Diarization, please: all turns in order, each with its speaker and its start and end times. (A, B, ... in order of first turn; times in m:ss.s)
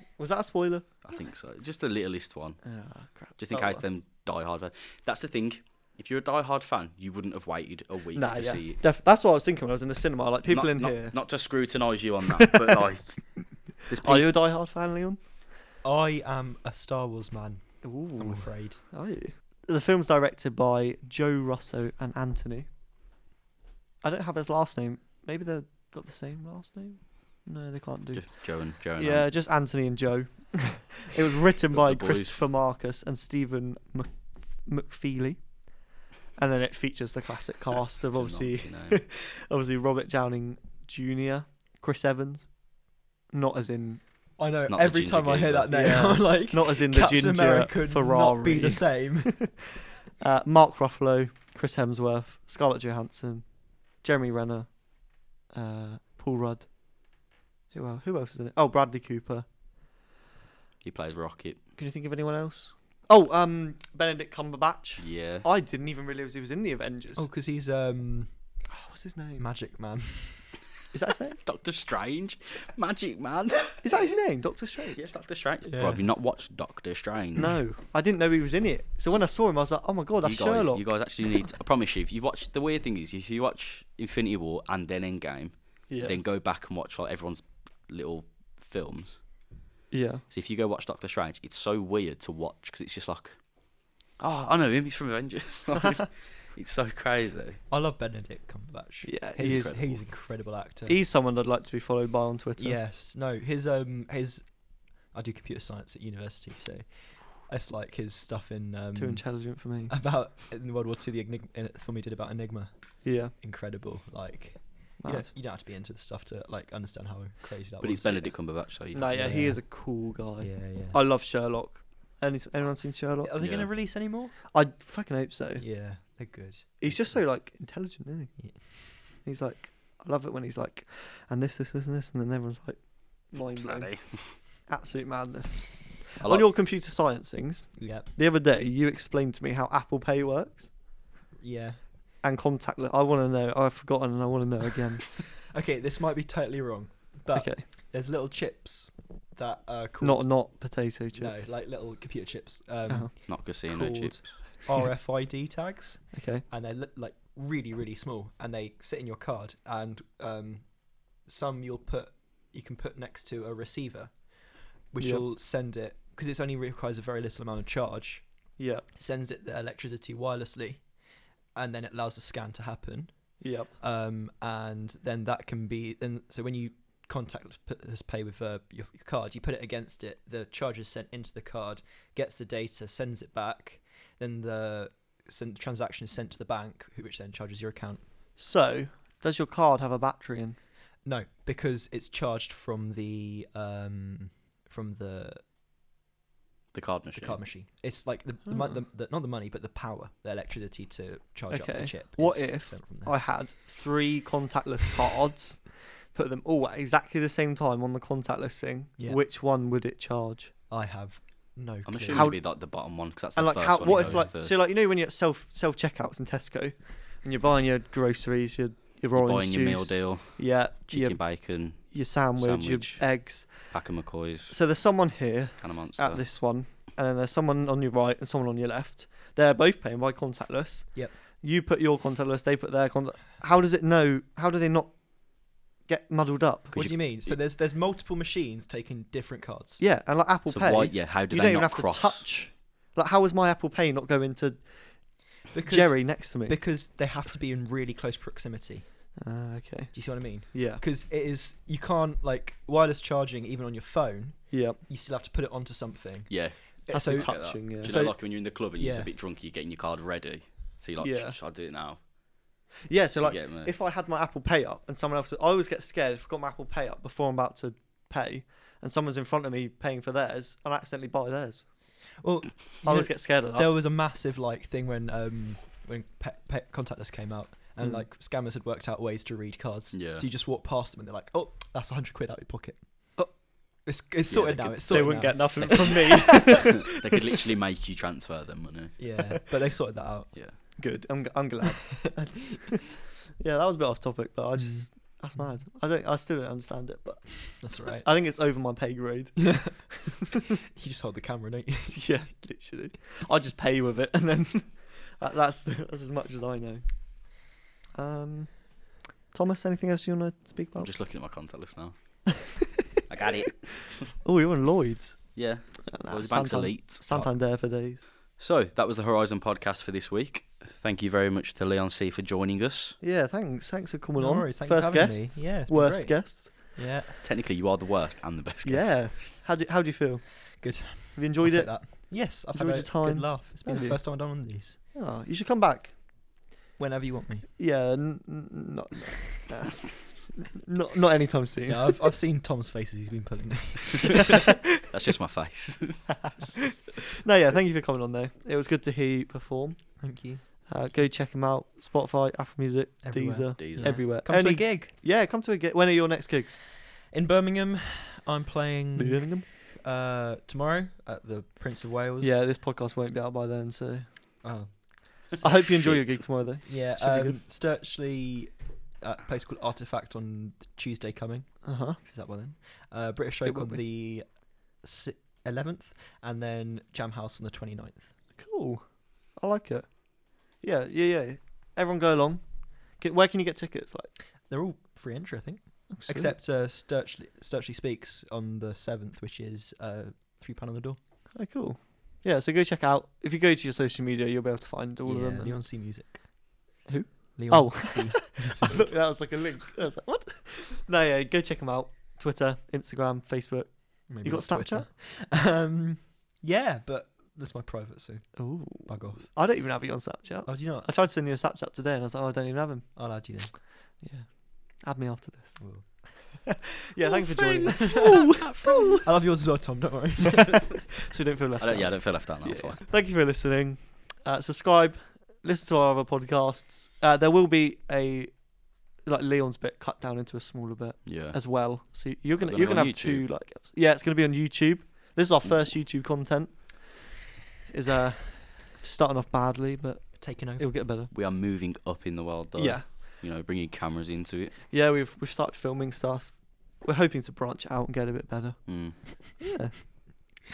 0:00.2-0:01.0 A
0:01.0-0:02.7 B
0:02.6-0:03.8 A
0:03.4-0:08.8 B
0:08.2-0:11.2 A
0:10.5-0:13.3 B
0:13.9-0:14.3 B
0:14.0-0:15.2 A
0:15.8-0:18.8 C
0:17.8-0:22.7 A
0:24.0-0:35.7 A
0:28.1-0:29.4 B
0:31.7-0:32.4 B
0:36.4-0:42.8 A
0:38.1-0:39.0 B
0:43.3-0:44.0 A
0:44.4-0:49.5 C
0:44.7-0:46.0 B
0:45.7-0:49.6 A
0:50.2-0:56.7 A
0:57.7-0:59.5 A
1:00.8-1:01.6 B
1:01.8-1:07.3 A
1:05.0-1:05.5 B
1:07.2-1:08.3 C
1:08.7-1:09.5 A
1:09.4-1:10.6 C
1:10.9-1:11.4 A
1:11.4-1:14.0 B
1:13.8-1:15.1 A
1:15.0-1:17.6 B
1:15.6-1:16.0 C
1:17.4-1:20.8 A
1:20.2-1:29.2 B
1:25.9-1:26.2 A
1:29.9-1:30.2 A
1:30.3-1:33.4 B
1:34.2-1:37.6 B
1:37.7-1:41.0 C
1:39.0-1:40.0 A
1:39.4-1:40.1 B
1:40.9-1:42.8 A
1:42.6-1:58.4 C
1:49.0-1:49.9 A
1:53.0-1:53.3 A
1:55.0-1:55.3 A
1:57.8-1:59.3 B
1:58.9-2:03.4 A
1:59.1-2:01.0 C
2:03.2-2:04.4 C
2:03.4-2:03.7 B
2:04.5-2:05.6 A
2:05.6-2:07.4 C
2:06.8-2:20.7 A
2:13.5-2:14.4 B
2:16.2-2:16.5 B
2:17.8-2:18.1 C
2:21.4-2:21.8 C
2:22.2-2:25.3 A
2:25.5-2:30.5 C
2:27.3-2:27.6 A
2:30.0-2:31.6 A
2:31.1-2:48.3 C
2:32.9-2:33.1 A
2:33.3-2:34.5 B
2:36.1-2:36.4 A
2:45.0-2:45.3 A
2:48.6-2:48.9 A
2:48.9-2:50.9 C
2:51.6-3:08.1 C
2:53.4-2:53.7 A
3:08.4-3:10.6 A
3:11.0-3:15.4 C
3:16.7-3:17.4 B
3:17.1-3:23.2 C
3:21.5-3:30.5 A
3:30.7-3:32.3 C
3:31.8-3:34.6 B
3:32.1-3:32.7 A
3:33.3-3:43.7 A
3:33.9-3:34.3 C
3:39.1-3:44.6 B
3:44.5-3:56.7 A
3:45.6-3:46.2 B
3:56.7-3:57.4 B
3:56.7-3:59.8 C
3:59.8-4:05.1 A
4:00.5-4:02.3 B
4:05.5-4:08.8 C
4:05.6-4:06.6 A
4:09.2-4:10.8 A
4:09.9-4:19.1 C
4:14.5-4:14.8 A
4:16.3-4:22.0 B
4:16.9-4:18.1 A
4:21.0-4:21.4 A
4:22.9-4:32.0 A
4:23.2-4:23.7 B
4:32.2-4:46.4 C
4:32.8-4:33.7 A
4:37.8-4:38.1 A
4:39.9-4:40.3 B
4:44.3-4:49.1 B
4:44.9-4:46.9 A
4:49.0-4:50.8 C
4:50.3-4:50.6 B
4:50.8-4:52.8 A
4:53.4-4:59.9 A
4:54.6-4:55.6 C
4:57.6-4:58.1 C
4:59.4-5:02.2 C
5:01.9-5:07.3 A
5:08.0-5:10.9 A
5:10.8-5:12.5 B
5:13.1-5:14.2 B
5:14.2-5:18.0 A
5:15.4-5:17.6 B
5:18.4-5:23.0 B
5:23.0-5:26.8 A
5:24.2-5:27.2 C
5:27.2-5:29.2 B
5:28.6-5:36.0 A
5:30.6-5:34.8 C
5:36.8-5:37.5 C
5:37.6-5:42.1 A
5:41.7-5:44.4 C
5:44.8-5:46.4 B
5:47.2-5:56.6 A
5:50.0-5:50.4 C
5:53.0-5:54.9 C
5:53.6-5:54.1 B
5:56.9-6:02.5 C
5:59.0-5:59.5 A
6:02.2-6:04.1 A
6:04.4-6:05.4 C
6:05.3-6:06.3 B
6:05.4-6:07.4 A
6:06.7-6:18.1 C
6:11.6-6:12.0 A
6:13.4-6:13.8 A
6:18.4-6:24.1 A
6:24.5-6:31.0 C
6:25.9-6:26.4 A
6:31.4-6:35.7 A
6:35.0-6:36.3 C
6:36.9-6:44.9 A
6:37.4-6:38.9 C
6:44.1-6:49.4 C
6:48.4-6:53.0 A
6:50.5-6:50.9 C
6:53.0-6:53.5 C
6:54.0-6:55.6 A
6:55.6-6:55.8 C
6:56.5-6:59.1 A
6:57.0-6:59.1 B
6:57.7-6:58.2 C
6:59.0-7:00.8 C
7:00.4-7:17.1 A
7:01.6-7:02.9 B
7:11.1-7:11.5 B
7:12.4-7:13.3 B
7:17.7-7:21.1 A
7:20.2-7:20.8 C
7:21.1-7:24.6 B
7:22.6-7:22.9 A
7:24.7-7:30.4 A
7:28.7-7:29.4 B